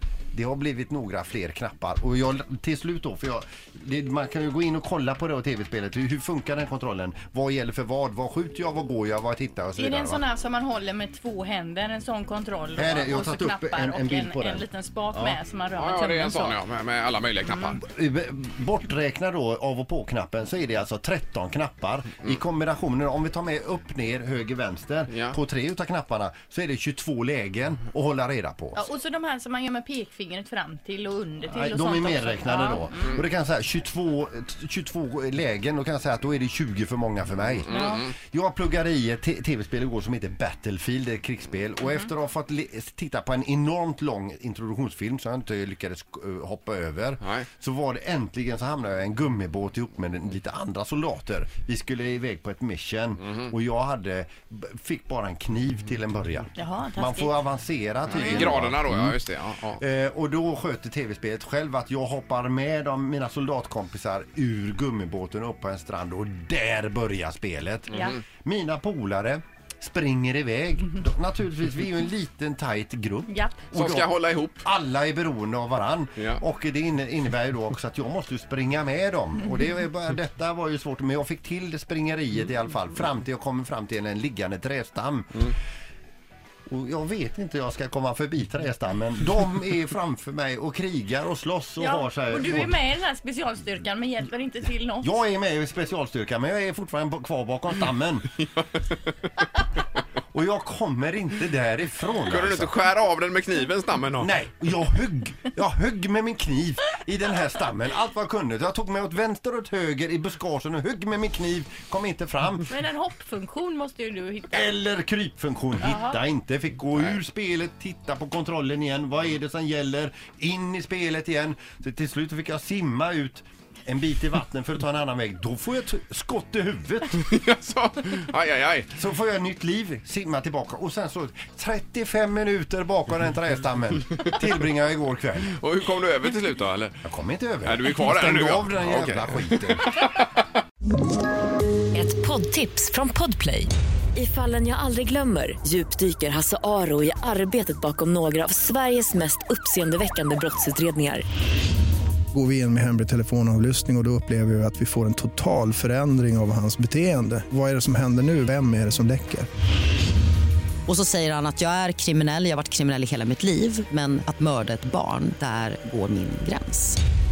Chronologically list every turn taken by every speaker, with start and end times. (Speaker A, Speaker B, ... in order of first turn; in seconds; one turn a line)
Speaker A: 0.3-10.2
Speaker B: 9.8-16.6
Speaker A: 12.7-15.4
Speaker C: 15.8-17.8
Speaker B: 17.4-17.8
Speaker A: 17.8-28.9
Speaker C: 25.1-25.4
Speaker B: 28.7-33.1
Speaker A: 31.5-59.2
Speaker C: 37.6-38.1
Speaker B: 37.7-38.1
Speaker B: 56.5-57.3
Speaker C: 58.1-59.8
Speaker A: 59.8-85.5
Speaker B: 67.9-68.2
Speaker B: 73.3-73.6
Speaker C: 73.7-74.6
Speaker A: 86.7-92.8
Speaker B: 91.8-95.2
Speaker A: 95.0-98.4
Speaker A: 100.3-102.7
Speaker C: 102.2-104.3
Speaker A: 104.2-112.7
Speaker B: 112.7-114.7
Speaker A: 114.5-127.2
Speaker B: 115.8-116.2
Speaker C: 127.2-128.9
Speaker A: 128.9-135.5
Speaker C: 135.5-137.0
Speaker A: 137.0-139.9
Speaker C: 137.6-140.2
Speaker D: 141.9-151.2
Speaker E: 152.3-159.5
Speaker F: 160.9-167.0